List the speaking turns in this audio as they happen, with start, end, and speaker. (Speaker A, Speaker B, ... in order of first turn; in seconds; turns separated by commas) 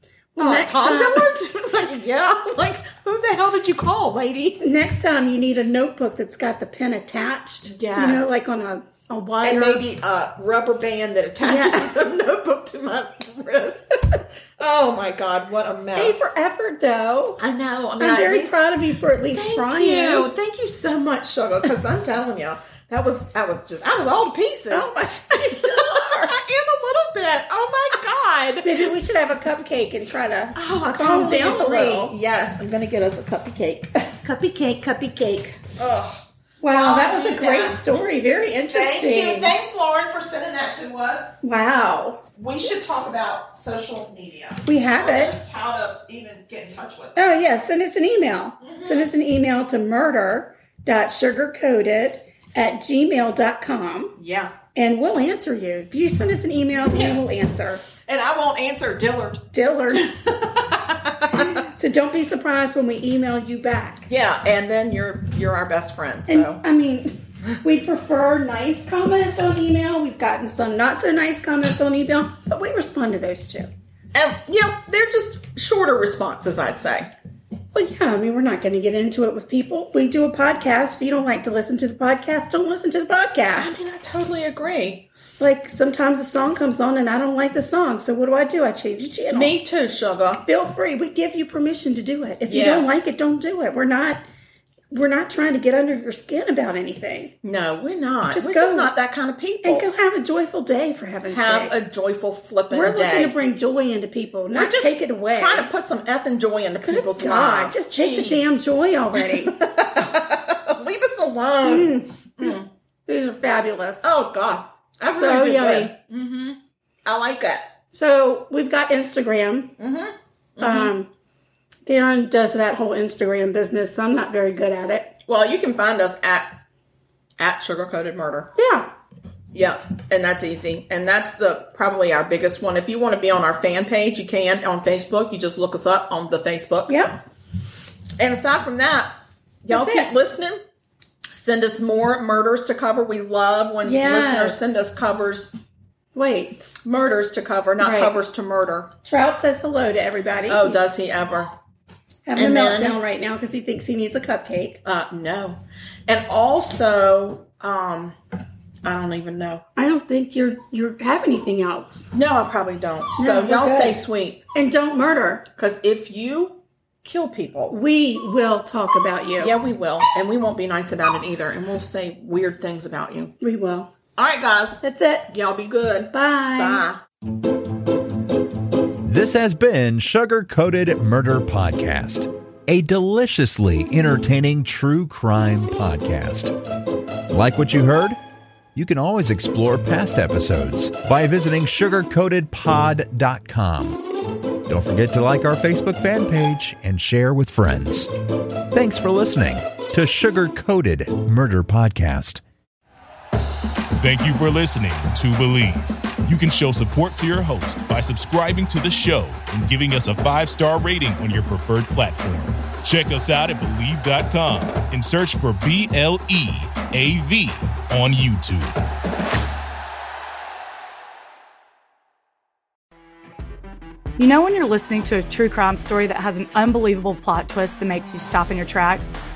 Speaker A: 0.3-1.3, Speaker B: 0.4-4.6, Speaker A: 4.6-9.8, Speaker B: 7.6-8.3, Speaker B: 9.4-16.3, Speaker A: 11.4-11.9, Speaker A: 15.9-17.4, Speaker B: 17.4-18.7, Speaker A: 18.0-20.3, Speaker B: 19.3-28.9, Speaker A: 24.7-26.4, Speaker A: 28.6-32.1, Speaker B: 30.5-38.0, Speaker A: 36.6-39.5, Speaker B: 38.7-41.4, Speaker A: 41.4-42.2, Speaker B: 42.3-47.3, Speaker A: 44.6-45.4, Speaker A: 47.1-54.2, Speaker B: 48.6-49.1, Speaker B: 54.2-54.5, Speaker A: 54.7-57.8, Speaker B: 56.8-57.2, Speaker B: 58.0-61.6, Speaker A: 59.5-60.1, Speaker A: 61.3-64.1, Speaker B: 64.1-66.6, Speaker A: 66.3-73.7, Speaker B: 74.1-77.1, Speaker A: 77.7-83.7, Speaker B: 83.5-85.0, Speaker A: 85.2-89.5, Speaker B: 89.3-90.4, Speaker A: 90.4-94.2, Speaker B: 92.5-92.9, Speaker A: 94.9-97.3, Speaker B: 97.4-99.9, Speaker A: 98.3-98.9, Speaker A: 99.6-101.7, Speaker B: 101.3-103.3, Speaker A: 102.7-105.7, Speaker B: 104.5-108.6, Speaker A: 106.8-109.6, Speaker B: 109.2-112.7, Speaker A: 111.6-114.1, Speaker B: 114.0-117.7, Speaker A: 115.1-115.9, Speaker A: 117.9-119.8, Speaker B: 119.8-120.9, Speaker A: 120.6-121.1, Speaker A: 121.8-125.1, Speaker B: 125.2-126.6, Speaker B: 127.4-128.5, Speaker A: 128.6-128.9, Speaker B: 129.5-137.0, Speaker A: 136.9-137.2, Speaker B: 138.2-139.1, Speaker B: 139.6-140.6, Speaker A: 139.7-140.1, Speaker B: 141.3-145.5, Speaker A: 143.8-144.6, Speaker A: 146.1-146.7, Speaker B: 146.8-148.9, Speaker A: 147.8-148.1, Speaker A: 149.0-150.8, Speaker B: 150.5-151.5, Speaker A: 152.2-154.8, Speaker B: 152.3-153.0, Speaker B: 154.8-158.2, Speaker B: 158.8-159.6, Speaker A: 159.8-162.1, Speaker B: 162.1-164.4, Speaker A: 163.2-164.0, Speaker A: 164.5-165.4, Speaker B: 165.6-167.8, Speaker A: 167.7-169.5, Speaker B: 169.4-173.3, Speaker A: 173.4-173.9, Speaker B: 174.2-177.0, Speaker A: 174.8-175.3, Speaker A: 176.1-176.8, Speaker C: 179.1-186.5, Speaker C: 187.3-188.2, Speaker C: 188.7-194.0, Speaker C: 194.7-198.1, Speaker C: 198.7-202.4, Speaker D: 204.0-218.8, Speaker E: 224.2-229.1